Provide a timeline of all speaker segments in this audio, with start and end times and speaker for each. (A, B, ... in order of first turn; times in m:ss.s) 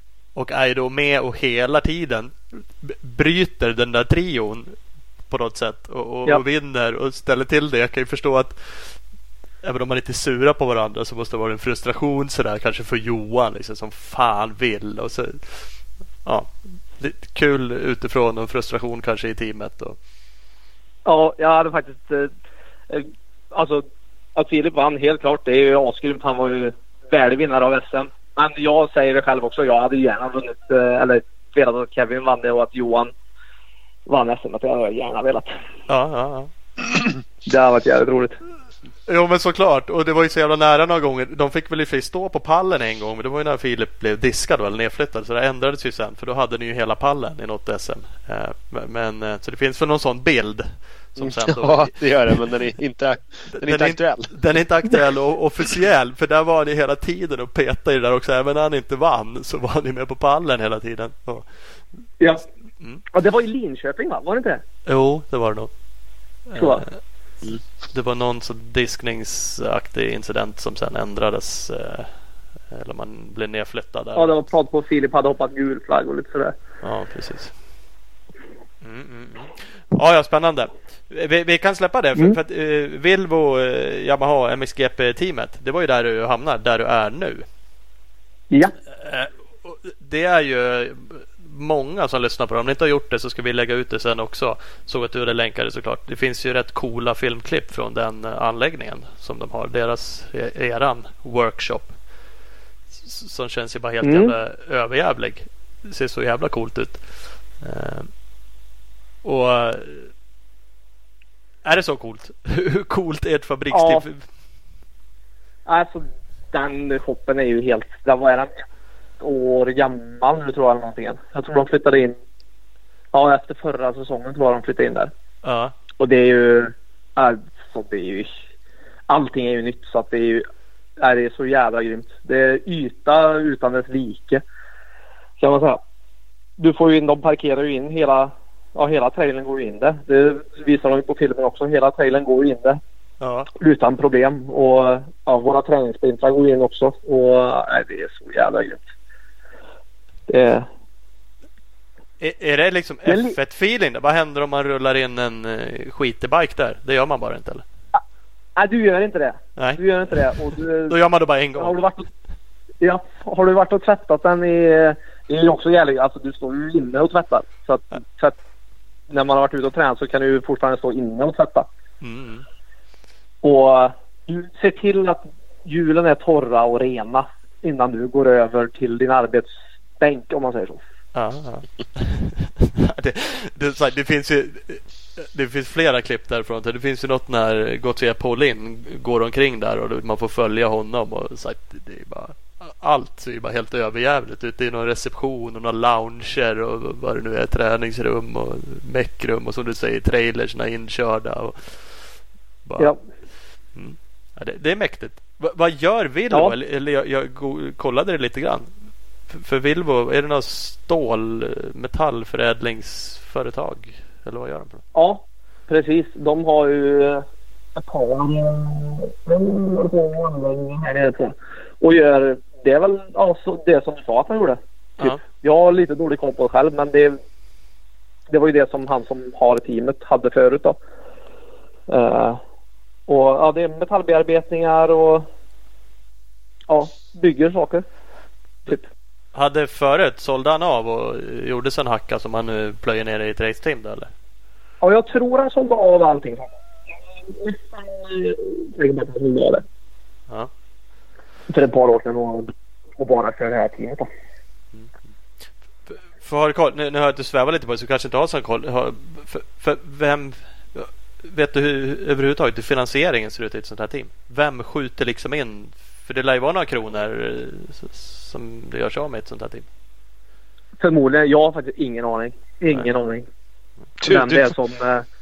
0:00.3-0:04.8 A
0:05.3-0:09.0 A
0:09.6-0:15.7 A
0:16.2-0:20.0 A
0:21.0-0:22.3 B
0:22.9-0:23.8 B
0:24.4-0:33.1 B
0:34.1-0:35.5 B
0:35.9-0:36.5 A
0:37.4-0:38.4 B
0:39.1-0:51.9 A
0:51.2-0:54.3 C
0:53.5-1:01.5 A
1:03.1-1:04.6 B
1:04.8-1:05.7 A
1:06.5-1:07.0 A
1:06.6-1:06.8 B
1:07.9-1:12.1 A
1:12.7-1:14.4 A
1:14.2-1:16.5 B
1:16.8-1:17.5 A
1:18.8-1:27.4 A
1:28.9-1:42.0 A
1:43.0-1:48.1 A
1:44.0-1:44.3 B
1:49.2-1:50.1 A
1:51.6-1:54.2 A
1:53.7-1:54.0 B
1:55.6-1:58.5 B
1:59.2-2:02.1 B
2:03.1-2:05.1 B
2:05.4-2:05.7 A
2:06.0-2:08.3 B
2:09.1-2:10.4 B
2:11.0-2:14.4 B
2:15.4-2:15.8 B
2:16.6-2:22.8 B
2:23.2-2:23.5 A
2:23.5-2:28.8 B
2:30.3-2:30.7 B
2:32.2-2:37.6 A
2:33.1-2:33.4 B
2:38.6-2:41.0 B
2:39.6-2:39.8 A
2:40.9-2:41.8 A
2:41.6-2:42.0 B
2:42.8-2:48.3 B
2:49.1-2:51.7 B
2:52.0-2:52.4 A
2:53.4-3:00.8 B
3:01.1-3:21.9 A
3:22.6-3:22.9 A
3:23.7-3:28.7 A
3:29.3-3:34.8 A
3:34.9-3:37.2 B
3:37.8-3:47.2 B
3:48.3-3:50.8 B
3:51.9-3:52.4 B
3:53.1-3:55.3 B
3:56.7-3:57.8 B
3:59.3-4:04.1 A
4:04.8-4:06.5 B
4:07.3-4:09.6 B
4:11.5-4:14.1 B
4:15.9-4:29.6 A
4:30.8-4:33.2 B
4:34.0-4:34.5 C
4:34.0-4:35.0 B